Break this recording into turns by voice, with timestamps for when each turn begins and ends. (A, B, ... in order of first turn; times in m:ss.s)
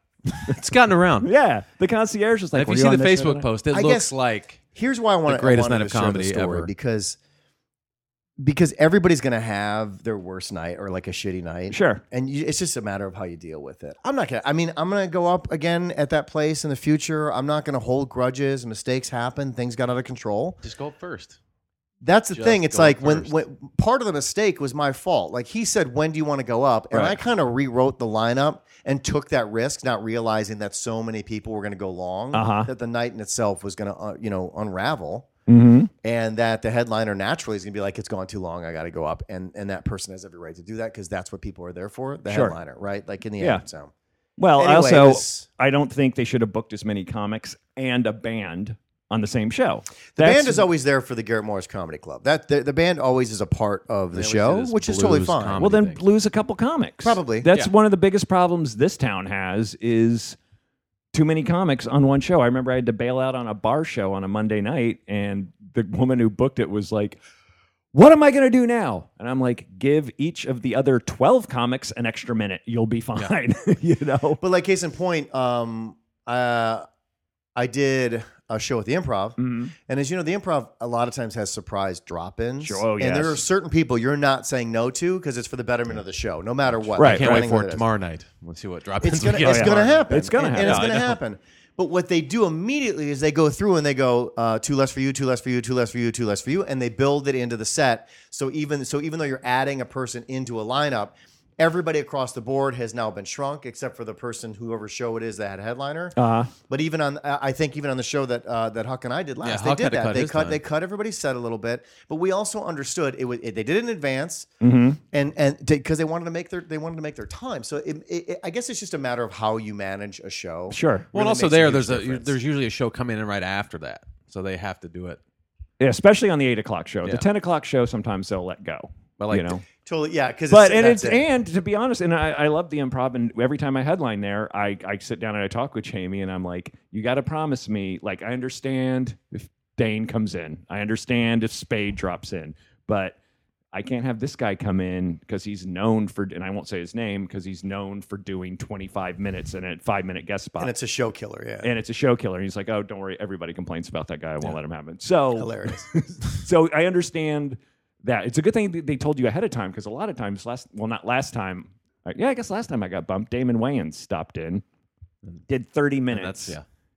0:00.3-0:01.3 A
0:01.2-0:03.5 B
0:02.5-0:04.6 A
0:03.7-0:04.1 C
0:04.6-0:07.2 C
0:05.3-0:06.7 A
0:08.4-0:20.6 C
0:11.7-0:12.0 B
0:20.6-0:21.4 A
0:22.0-0:35.3 C
0:22.3-0:23.3 A
0:26.9-0:27.2 B
0:32.3-0:32.7 B
0:35.5-0:35.9 B
0:36.0-0:43.9 C
0:42.3-0:42.6 B
0:44.4-0:50.6 B
0:44.6-0:45.4 C
0:50.2-0:55.6 C
0:54.1-0:56.0 A
0:55.6-1:00.4 B
0:57.0-0:57.5 C
1:01.1-1:07.2 B
1:07.9-1:14.4 B
1:14.4-1:16.8 C
1:17.6-1:27.8 C
1:19.4-1:19.7 B
1:22.6-1:23.4 B
1:26.8-1:31.2 A
1:27.0-1:27.4 B
1:29.0-1:54.5 C
1:29.4-1:30.9 B
1:46.2-1:46.5 B
1:49.4-1:50.6 A
1:54.6-1:55.0 B
1:55.1-2:02.3 C
2:00.7-2:01.1 B
2:01.1-2:05.2 A
2:05.8-2:09.6 B
2:09.2-2:09.5 A
2:09.8-2:11.2 C
2:10.5-2:23.2 B
2:23.7-2:30.7 B
2:30.6-2:31.7 C
2:31.6-2:44.6 B
2:35.3-2:35.9 C
2:45.5-2:46.6 B
2:46.1-2:46.6 A